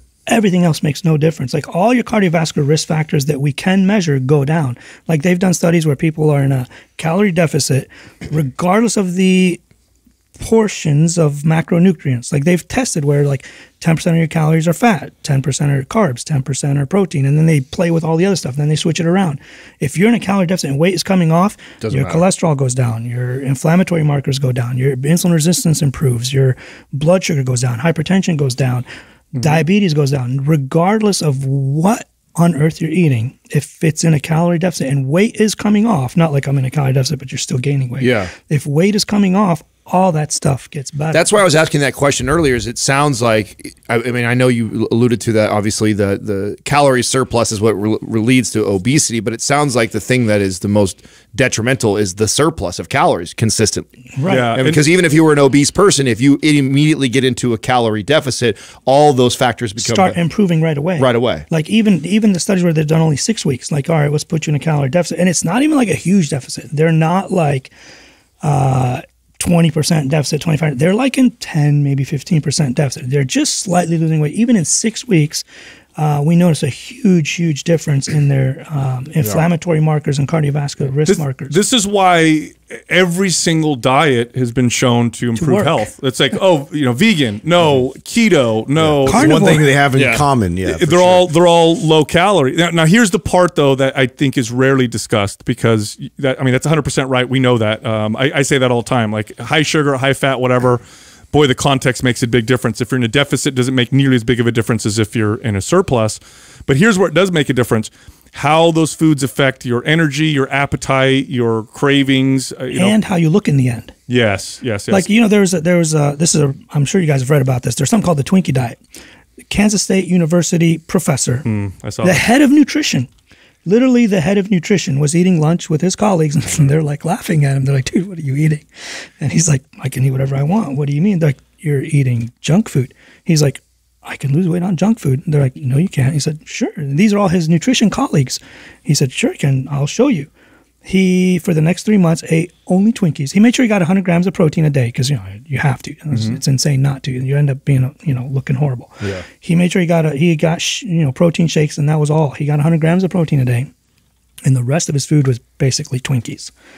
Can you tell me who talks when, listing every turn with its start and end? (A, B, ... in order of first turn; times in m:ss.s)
0:00.3-0:09.6 A
0:10.4-0:41.4 A
0:21.8-0:22.2 B
0:38.0-0:38.3 B
0:41.1-1:00.2 B
0:54.2-0:54.5 A
0:54.3-0:54.8 C
0:59.8-1:07.7 A
1:01.0-1:01.5 B
1:08.4-1:15.4 A
1:16.0-1:21.6 A
1:21.0-1:29.7 C
1:25.4-1:25.8 A
1:28.8-1:31.3 D
1:29.0-1:29.7 A
1:29.9-1:30.2 B
1:30.6-1:53.0 C
1:52.7-1:54.0 A
1:54.1-1:55.1 C
1:54.9-1:58.8 A
1:59.5-2:01.5 A
2:01.4-2:02.2 C
2:02.0-2:03.1 A
2:03.7-2:08.7 A
2:09.2-2:20.3 A
2:20.8-2:33.7 A
2:26.1-2:26.4 C
2:34.4-2:36.5 A